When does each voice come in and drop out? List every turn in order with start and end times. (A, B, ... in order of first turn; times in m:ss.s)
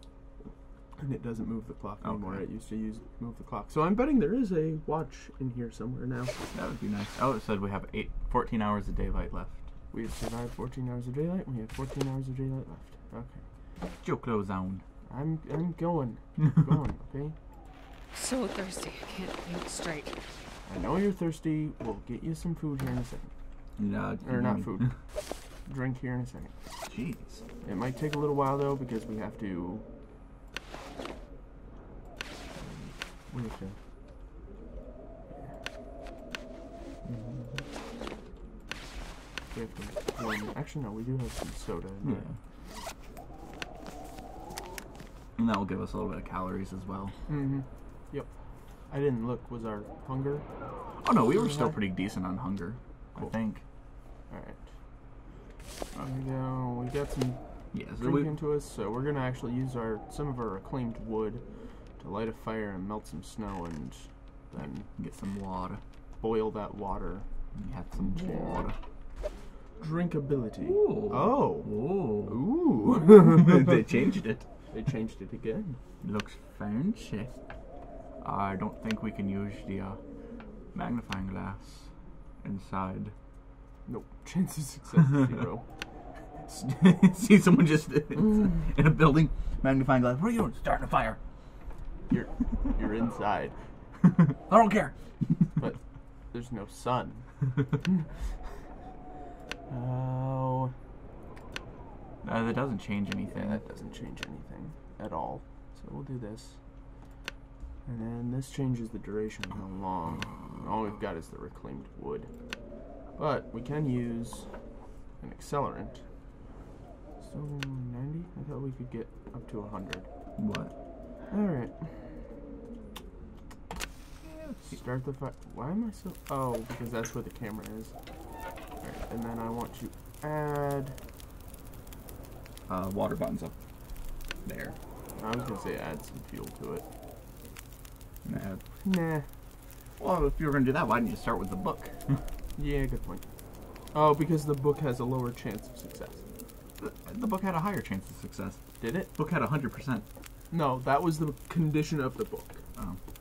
0:01.0-0:06.3 A
0:02.0-0:02.4 B
0:06.5-0:09.6 B
0:09.9-0:13.4 A
0:14.0-0:14.8 B
0:15.1-0:17.4 A
0:18.1-0:20.2 C
0:20.6-0:23.3 A
0:23.8-0:24.9 B
0:24.2-0:24.9 A
0:25.6-0:26.5 A
0:26.8-0:27.4 B
0:27.6-0:29.8 A
0:32.6-0:33.8 A
0:37.0-0:37.6 B
0:39.5-0:42.3 A
0:42.0-0:42.4 B
0:45.4-0:47.1 B
0:47.3-0:48.3 A
0:48.9-0:50.4 A
0:51.0-0:53.6 B
0:51.3-0:51.8 A
0:54.3-0:54.7 A
0:56.0-0:57.4 A
0:57.7-0:58.3 B
0:57.9-1:01.4 A
1:02.0-1:04.9 A
1:04.9-1:05.8 B
1:06.2-1:07.2 A
1:07.5-1:08.7 B
1:08.0-1:08.7 A
1:09.8-1:13.8 A
1:10.6-1:14.4 B
1:14.7-1:15.8 A
1:16.0-1:17.3 B
1:18.2-1:20.0 B
1:20.7-1:21.9 B
1:22.4-1:23.1 B
1:23.9-1:25.6 A
1:26.5-1:31.2 B
1:32.1-1:33.5 A
1:34.2-1:34.9 B
1:35.6-1:37.3 A
1:37.8-1:38.1 A
1:39.7-1:40.7 A
1:42.2-1:43.6 B
1:43.3-1:46.6 A
1:47.8-1:52.3 A
1:53.2-1:54.5 A
1:55.2-1:56.0 A
1:57.2-2:00.1 A
2:00.4-2:00.7 B
2:01.3-2:02.0 A
2:04.2-2:04.8 B
2:04.6-2:07.9 A
2:08.8-2:11.0 A
2:12.7-2:13.6 B
2:14.4-2:14.8 B
2:15.2-2:16.8 A
2:18.2-2:18.6 B
2:18.8-2:19.3 A
2:20.0-2:22.2 B
2:22.6-2:23.2 A
2:23.9-2:26.3 A
2:26.8-2:30.0 B
2:28.8-2:29.1 A
2:30.5-2:32.6 A